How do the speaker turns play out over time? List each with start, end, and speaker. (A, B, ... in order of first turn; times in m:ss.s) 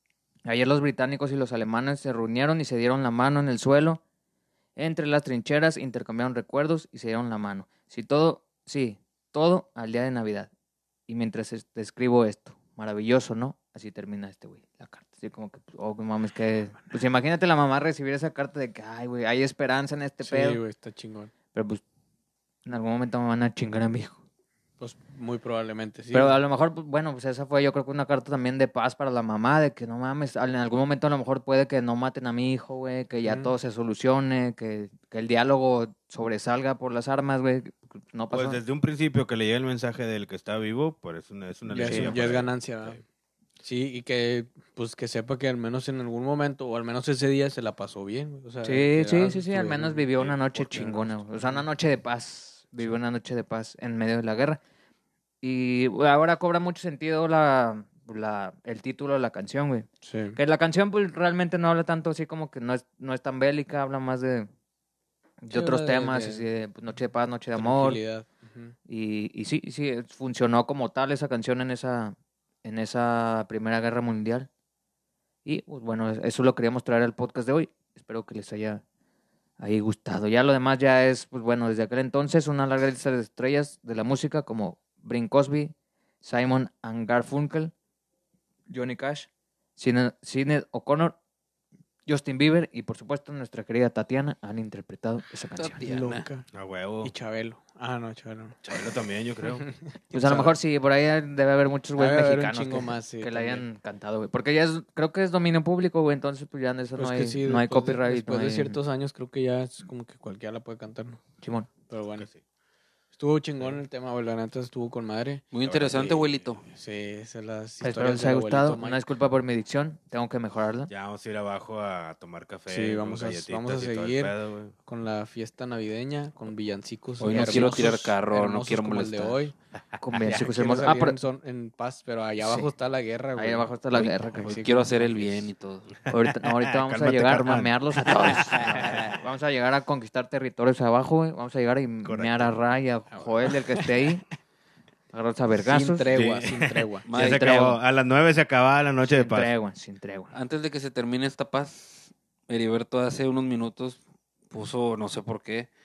0:00.4-0:04.0 A
0:04.8-0:10.5 A
0:11.1-0:20.6 A
0:20.2-0:21.3 B
0:21.5-0:21.8 A
0:22.6-0:24.2 A
0:24.8-0:26.4 B
0:26.1-0:38.6 A
0:33.2-0:33.5 B
0:38.3-0:43.0 C
0:41.7-0:43.0 B
0:41.8-0:42.2 A
0:43.6-0:51.6 B
0:48.6-0:54.6 A
0:55.4-1:04.5 A
1:00.0-1:00.4 B
1:05.4-1:08.0 A
1:05.5-1:06.5 B
1:07.6-1:08.7 B
1:08.9-1:14.5 A
1:15.4-1:18.8 A
1:19.6-1:27.7 A
1:28.7-1:31.2 A
1:32.1-1:35.8 A
1:35.6-1:36.3 D
1:35.8-1:36.5 B
1:36.5-1:37.1 C
1:37.0-1:38.8 B
1:38.6-1:39.7 C
1:39.5-1:40.6 B
1:40.1-1:48.8 A
1:42.0-1:43.6 B
1:47.0-1:51.2 B
1:51.4-1:51.7 A
1:51.9-1:52.3 B
1:53.1-1:59.0 B
1:55.5-1:56.6 D
1:55.6-1:56.4 C
1:57.8-2:00.9 A
2:00.9-2:04.7 C
2:02.7-2:09.5 B
2:07.2-2:09.4 D
2:07.3-2:07.6 A
2:10.0-2:11.2 A
2:10.2-2:13.7 B
2:12.4-2:12.7 A
2:13.4-2:14.5 A
2:14.0-2:15.9 D
2:14.4-2:15.5 B
2:16.1-2:24.2 A
2:16.4-2:19.2 C
2:18.6-2:19.0 B
2:22.0-2:22.5 C
2:23.1-2:24.1 B
2:25.1-2:26.1 A
2:25.6-2:27.0 B
2:26.1-2:29.5 C
2:27.1-2:27.4 D
2:27.1-2:27.8 A
2:29.0-2:30.3 A
2:30.3-2:35.7 D